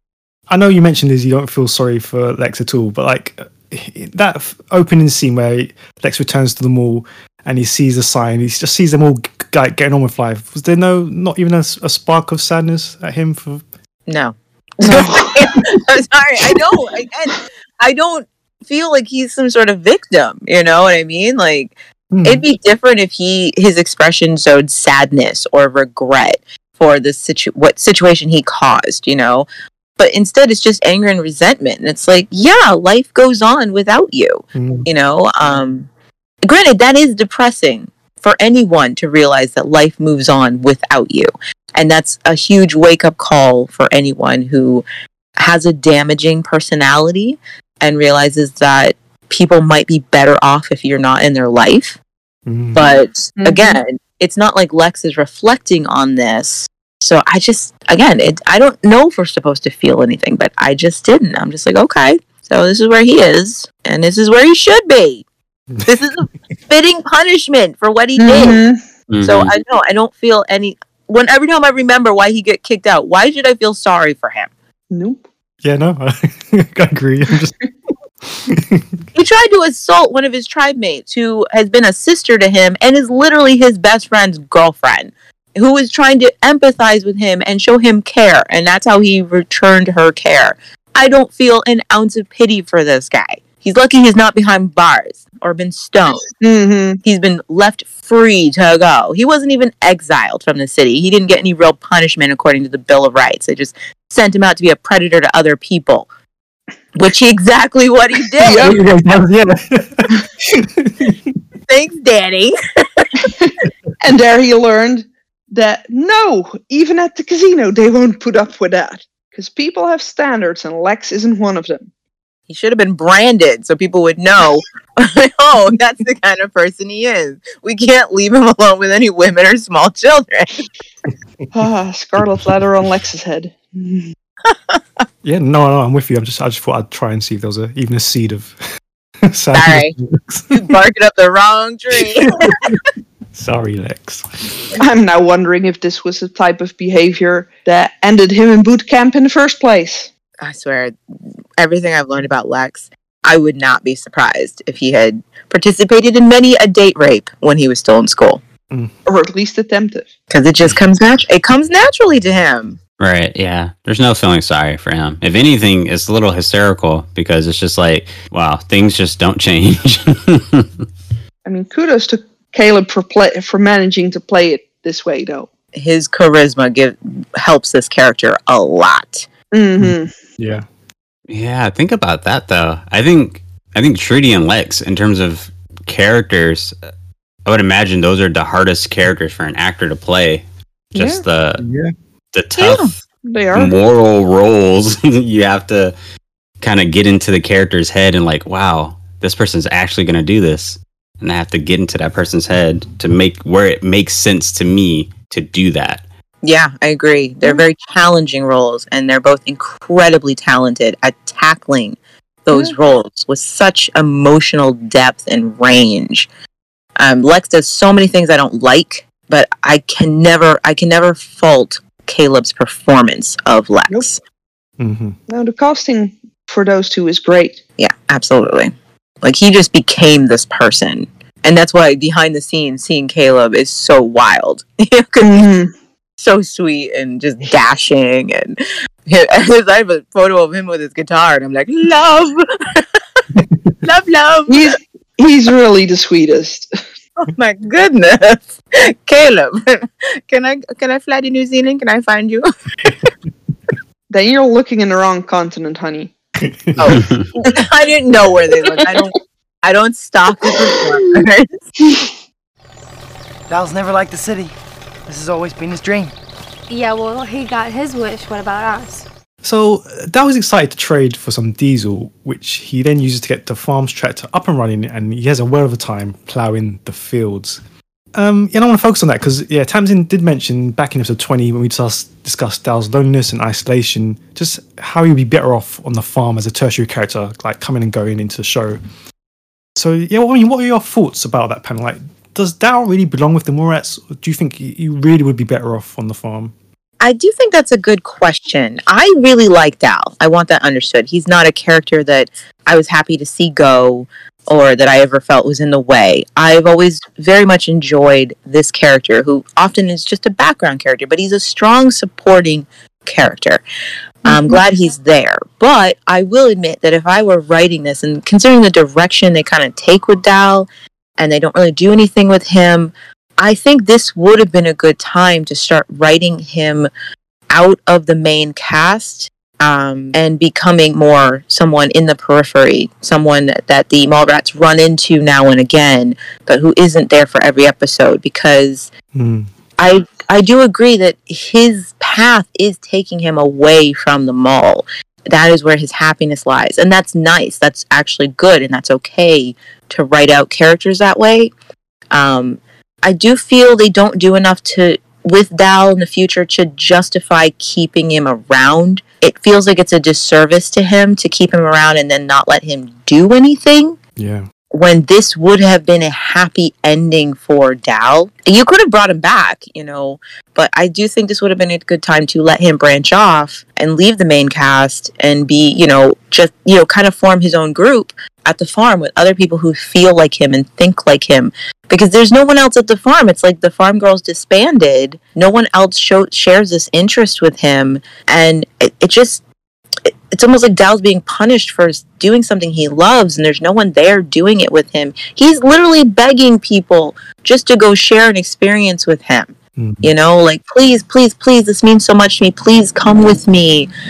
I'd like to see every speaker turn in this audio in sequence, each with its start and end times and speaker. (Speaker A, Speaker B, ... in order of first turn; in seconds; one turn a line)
Speaker A: 0.5-13.7
Speaker B: 14.1-29.5
Speaker C: 14.9-15.4
Speaker A: 22.1-22.4
Speaker B: 30.0-35.9
Speaker A: 34.5-34.9
Speaker B: 36.4-44.8
Speaker B: 45.4-52.0
Speaker A: 52.5-52.9
Speaker B: 52.8-65.2
Speaker C: 53.4-53.8
Speaker B: 65.9-68.6
Speaker C: 68.2-68.8
Speaker D: 69.1-69.5
Speaker B: 69.2-74.5
Speaker C: 74.9-75.2
Speaker A: 75.6-77.6
Speaker A: 78.3-79.0
Speaker B: 79.1-96.3
Speaker C: 96.4-97.0
Speaker B: 97.0-106.1
Speaker B: 107.0-108.7
Speaker C: 108.4-108.8
Speaker A: 108.5-111.2
Speaker B: 111.7-113.1
Speaker C: 113.2-121.9
Speaker B: 122.5-130.6
Speaker C: 131.5-134.1
Speaker B: 134.5-134.8
Speaker A: 135.2-138.6
Speaker A: 139.3-140.7
Speaker B: 139.5-139.9
Speaker B: 140.5-142.5
Speaker A: 142.0-144.8
Speaker C: 144.8-150.1
Speaker B: 150.4-150.9
Speaker B: 151.6-158.4
Speaker C: 159.1-160.1
Speaker B: 160.3-162.8
Speaker D: 163.0-170.9
Speaker C: 171.4-175.5
Speaker B: 175.8-179.3
Speaker C: 179.5-180.1
Speaker A: 179.8-180.7
Speaker D: 181.3-186.9
Speaker D: 187.5-191.6
Speaker C: 191.0-191.2
Speaker A: 191.6-191.9
Speaker D: 192.3-193.0
Speaker B: 192.6-192.9
Speaker C: 193.2-193.7
Speaker D: 193.5-195.9
Speaker D: 196.6-206.0
Speaker B: 206.4-216.3
Speaker B: 217.0-224.2
Speaker A: 224.8-225.2
Speaker C: 225.3-227.6
Speaker B: 227.8-228.7
Speaker B: 229.2-235.5
Speaker C: 235.2-235.7
Speaker B: 236.2-244.7
Speaker A: 243.3-243.8
Speaker C: 244.5-246.7
Speaker B: 247.2-252.9
Speaker A: 252.8-253.1
Speaker C: 254.1-256.1
Speaker A: 256.4-257.0
Speaker B: 256.8-261.5
Speaker D: 257.0-257.3
Speaker C: 261.8-262.1
Speaker E: 263.5-264.5
Speaker E: 265.1-266.1
Speaker F: 266.7-269.1
Speaker A: 269.4-277.6
Speaker A: 278.1-288.8
Speaker A: 289.8-296.5
Speaker B: 297.0-313.6
Speaker B: 314.2-326.9
Speaker C: 314.3-314.6
Speaker B: 327.5-338.9
Speaker A: 339.1-339.5
Speaker B: 339.8-351.5
Speaker B: 352.1-364.0
Speaker A: 364.2-364.5
Speaker B: 364.7-389.4
Speaker B: 390.1-403.9
Speaker A: 399.8-400.1